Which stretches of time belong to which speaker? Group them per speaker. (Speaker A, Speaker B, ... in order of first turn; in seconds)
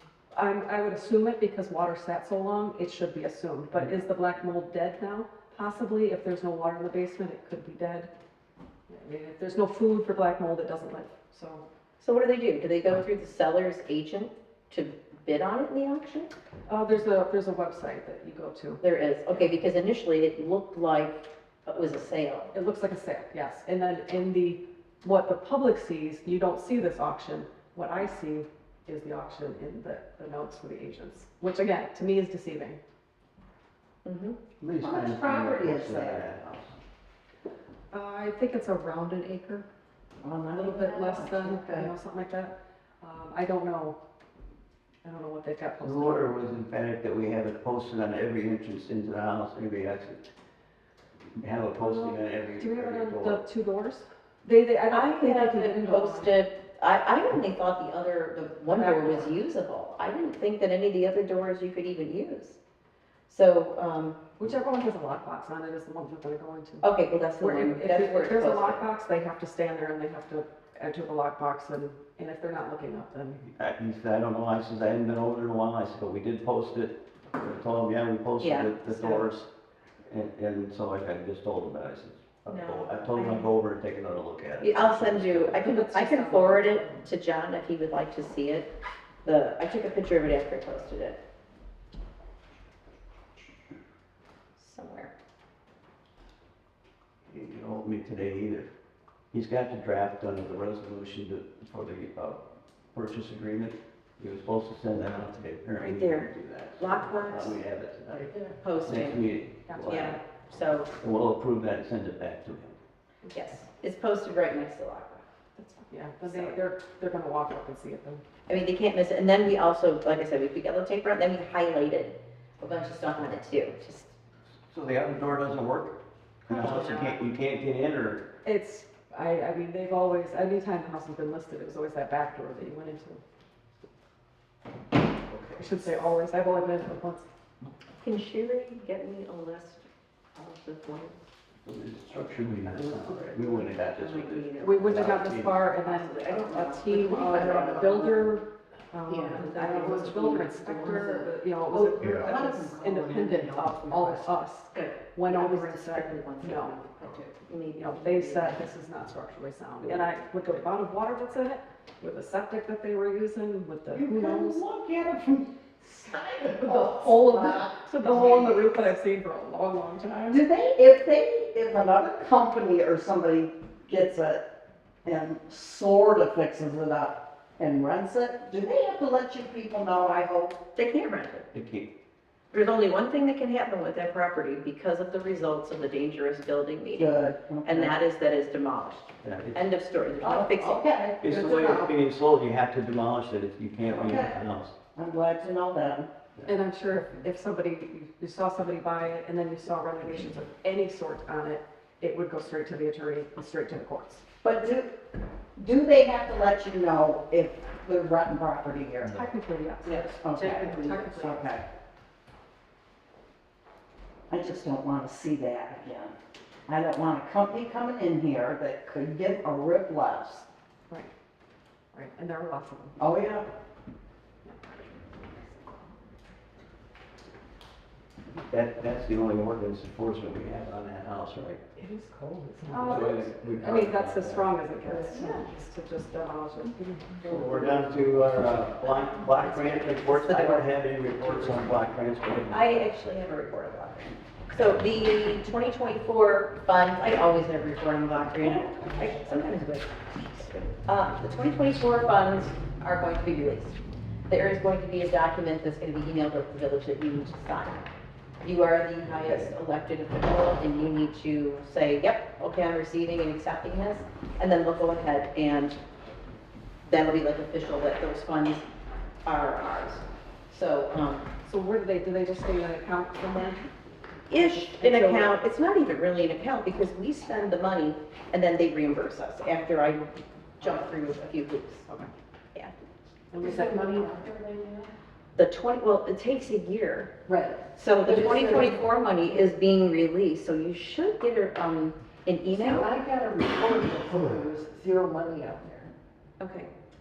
Speaker A: 0.3-8.1, 8.9-11.6, 16.7-18.8, 22.5-32.8, 37.9-39.6, 40.5-44.0, 45.0-46.4, 51.8-56.3, 58.7-59.3, 64.4-73.4, 85.6-87.0, 109.7-110.2, 115.5-118.2, 128.4-133.2, 135.6-137.2, 144.6-156.8, 157.7-164.6, 166.6-170.4, 196.5-204.2, 209.0-211.5, 221.9-223.0, 231.8-238.1, 271.4-273.7, 274.3-275.4, 283.3-283.8
Speaker B: 12.0-16.3, 18.8-22.5, 34.0-34.4, 54.9-62.6, 63.3-64.2, 66.8-68.8, 78.4-79.3, 82.5-83.5, 84.6-88.7, 89.2-91.2, 94.6-95.1, 105.8-107.6, 108.6-109.2, 109.8-110.9, 113.3-115.2, 116.2-116.6, 118.5-124.1, 126.5-127.1, 138.0-141.2, 143.3-148.1, 149.6-150.0, 154.7-158.6, 180.7-181.5, 182.5-190.8, 234.9-235.4, 238.8-241.7, 242.5-253.7, 254.3-257.9, 258.4-265.8, 266.9-268.6, 269.2-271.3, 274.3-281.8, 285.4-287.1, 287.8-292.9, 296.4-296.7
Speaker C: 34.6-36.7, 45.8-50.3, 51.4-53.4, 73.6-79.5, 80.1-85.6, 97.3-98.7, 99.3-102.4, 102.9-110.2, 111.0-112.8, 124.7-128.3, 135.3-135.9, 141.6-145.6, 152.0-152.3, 181.5-181.9, 189.2-189.6, 191.2-194.7, 228.4-231.6, 232.8-235.0, 237.2-242.7, 259.2-259.5
Speaker D: 34.8-36.2, 40.2-41.9, 151.7-152.0, 163.9-168.8, 170.3-174.4, 175.0-180.6, 186.9-188.0, 190.2-191.9, 193.8-194.3, 194.9-196.1, 204.4-204.9, 205.6-209.2, 210.2-211.7, 214.3-216.1, 216.7-220.4, 223.0-223.5
Speaker E: 147.3-147.9, 149.1-154.3, 209.8-210.2, 232.7-233.0, 283.3-284.9, 287.2-288.8, 292.5-295.9